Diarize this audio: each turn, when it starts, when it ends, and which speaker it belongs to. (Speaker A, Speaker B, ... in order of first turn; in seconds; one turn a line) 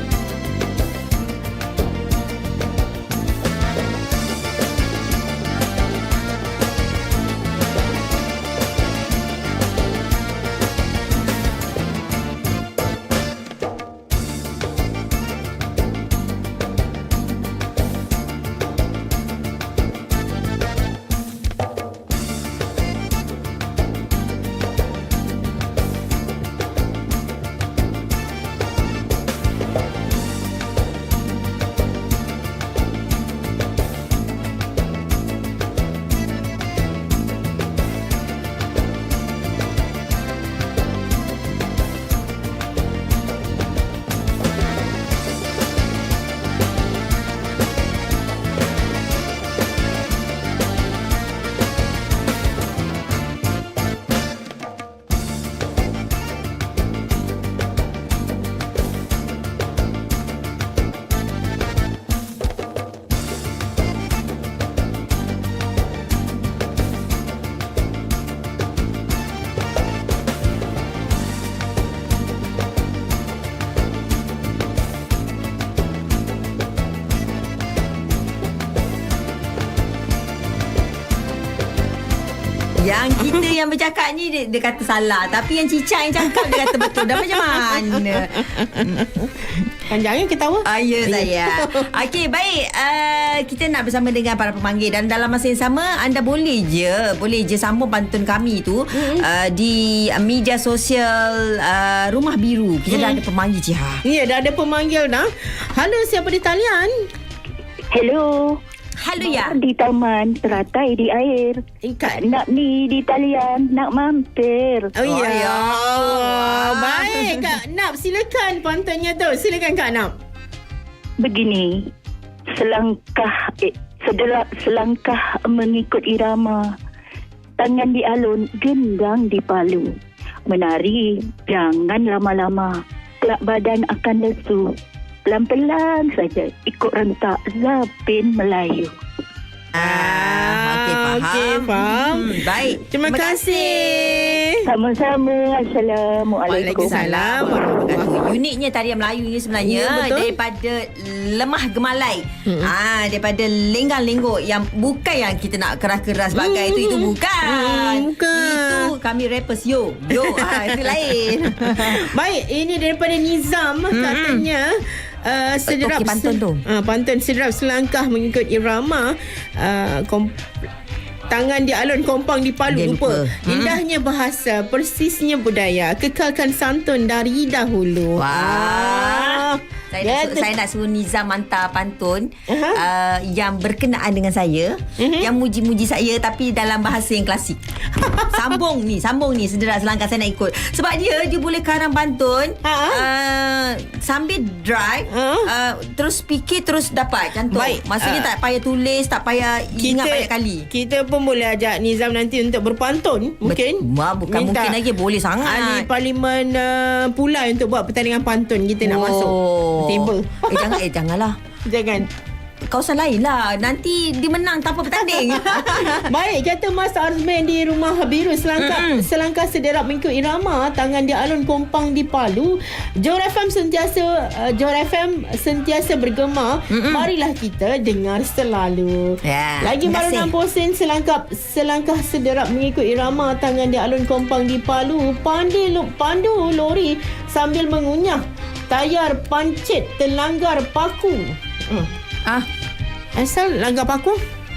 Speaker A: 82.8-89.1
Speaker B: 86.4-91.9
Speaker A: 90.6-104.0
Speaker B: 98.9-99.2
Speaker B: 102.9-103.2
Speaker B: 104.0-106.9
Speaker C: 107.9-108.6
Speaker A: 109.0-109.6
Speaker C: 109.2-114.9
Speaker B: 111.8-112.3
Speaker B: 115.0-120.1
Speaker A: 115.0-117.6
Speaker C: 121.2-121.7
Speaker C: 122.5-126.6
Speaker C: 127.6-129.9
Speaker C: 130.5-134.7
Speaker C: 135.2-138.9
Speaker A: 139.7-144.4
Speaker B: 139.7-144.6
Speaker C: 144.6-147.0
Speaker A: 146.4-162.1
Speaker B: 146.5-148.1
Speaker B: 149.6-150.3
Speaker B: 152.5-152.7
Speaker B: 156.3-158.9
Speaker B: 160.2-160.9
Speaker B: 161.6-170.4
Speaker A: 163.9-164.4
Speaker A: 165.7-166.6
Speaker B: 171.3-180.5
Speaker A: 172.7-173.8
Speaker A: 178.2-187.6
Speaker B: 182.5-182.8
Speaker B: 185.0-185.3
Speaker B: 187.9-188.4
Speaker A: 188.3-200.7
Speaker B: 192.6-193.1
Speaker B: 195.1-195.5
Speaker B: 197.5-198.3
Speaker B: 199.8-204.8
Speaker A: 203.4-205.9
Speaker B: 205.4-210.8
Speaker A: 208.8-211.3
Speaker B: 211.7-212.1
Speaker A: 212.7-216.1
Speaker B: 215.0-241.9
Speaker A: 218.6-219.1
Speaker A: 226.7-227.1
Speaker A: 229.2-230.3
Speaker B: 243.2-244.2